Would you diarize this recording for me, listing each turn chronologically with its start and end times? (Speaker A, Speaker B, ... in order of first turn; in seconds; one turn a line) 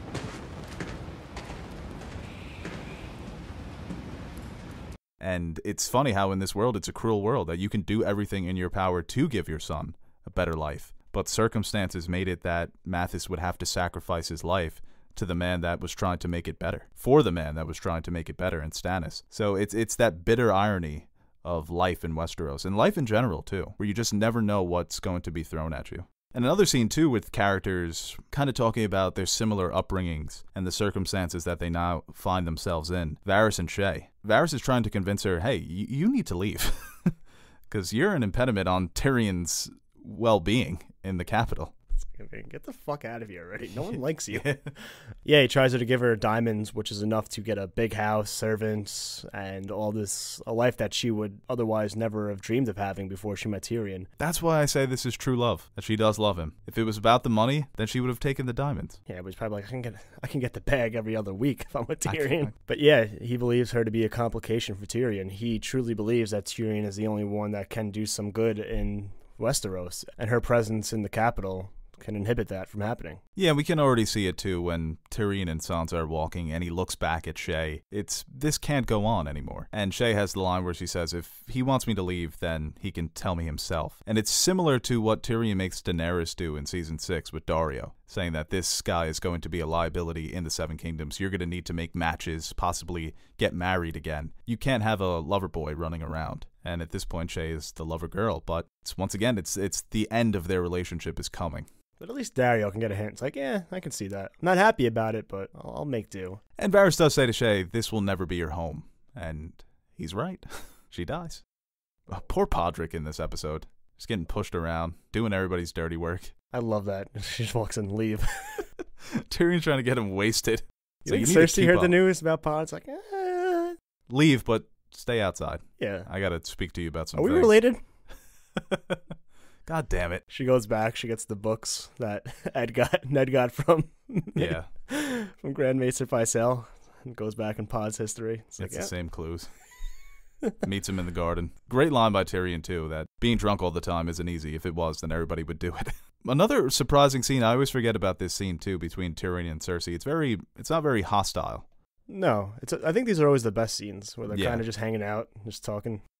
Speaker A: 5.2-37.1
Speaker A: 37.7-41.7
Speaker B: 42.0-44.6
Speaker A: 44.3-44.7
Speaker B: 45.2-54.1
Speaker A: 54.2-59.0
Speaker B: 59.1-73.2
Speaker A: 62.0-62.5
Speaker A: 73.3-101.7
Speaker B: 102.0-106.4
Speaker A: 106.6-111.4
Speaker A: 112.1-116.3
Speaker B: 116.5-118.7
Speaker A: 119.1-122.0
Speaker B: 121.0-123.8
Speaker A: 124.1-127.5
Speaker B: 125.8-126.1
Speaker B: 127.2-127.8
Speaker A: 128.6-129.0
Speaker A: 129.7-130.2
Speaker B: 130.3-138.9
Speaker A: 134.3-134.7
Speaker A: 138.6-139.5
Speaker A: 140.6-151.7
Speaker B: 152.1-156.0
Speaker A: 154.3-154.6